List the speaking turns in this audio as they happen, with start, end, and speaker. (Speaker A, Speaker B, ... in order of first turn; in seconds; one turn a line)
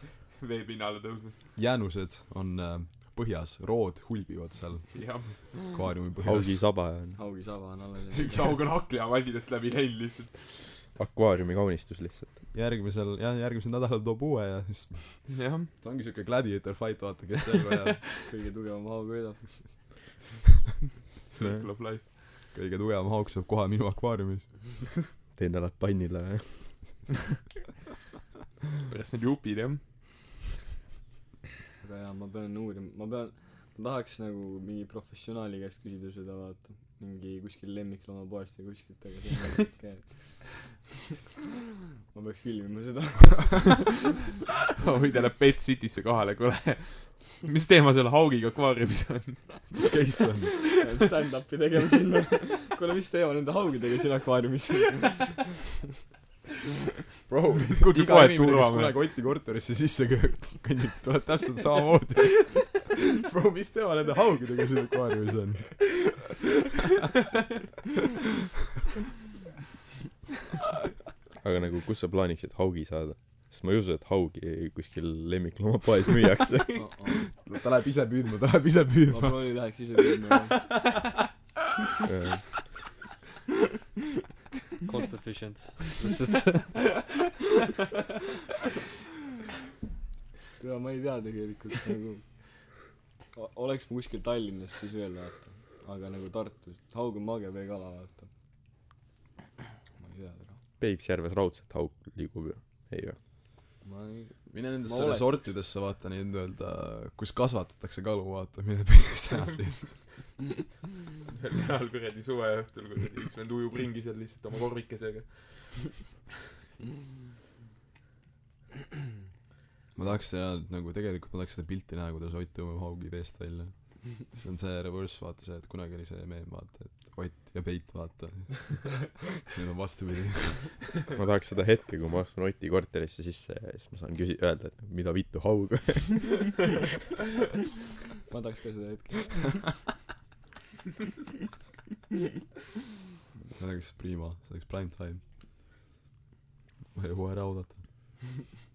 Speaker A: 0.4-1.4
Speaker B: 1.6-6.6
Speaker A: 4.9-5.8
Speaker C: 6.2-7.2
Speaker D: 7.1-8.6
Speaker A: 8.1-10.8
Speaker C: 10.9-12.4
Speaker B: 12.5-18.1
Speaker A: 15.3-15.7
Speaker D: 18.3-20.0
Speaker A: 21.3-22.1
Speaker C: 21.4-21.6
Speaker B: 22.5-24.9
Speaker C: 25.4-27.1
Speaker A: 28.9-30.2
Speaker D: 31.8-40.8
Speaker D: 42.1-44.0
Speaker A: 44.8-49.8
Speaker B: 49.7-50.7
Speaker D: 50.8-55.4
Speaker B: 57.3-66.3
Speaker A: 57.7-59.1
Speaker C: 71.4-76.9
Speaker D: 76.7-77.2
Speaker B: 77.4-79.7
Speaker D: 79.1-80.7
Speaker C: 82.1-82.7
Speaker E: 84.8-86.9
Speaker D: 90.6-92.8
Speaker D: 93.3-98.3
Speaker D: 100.0-100.6
Speaker C: 100.8-103.2
Speaker D: 103.8-105.5
Speaker B: 104.5-110.1
Speaker A: 111.3-116.0
Speaker B: 119.9-130.8
Speaker C: 131.1-136.7
Speaker D: 138.3-139.8
Speaker B: 143.6-145.2
Speaker B: 146.9-147.9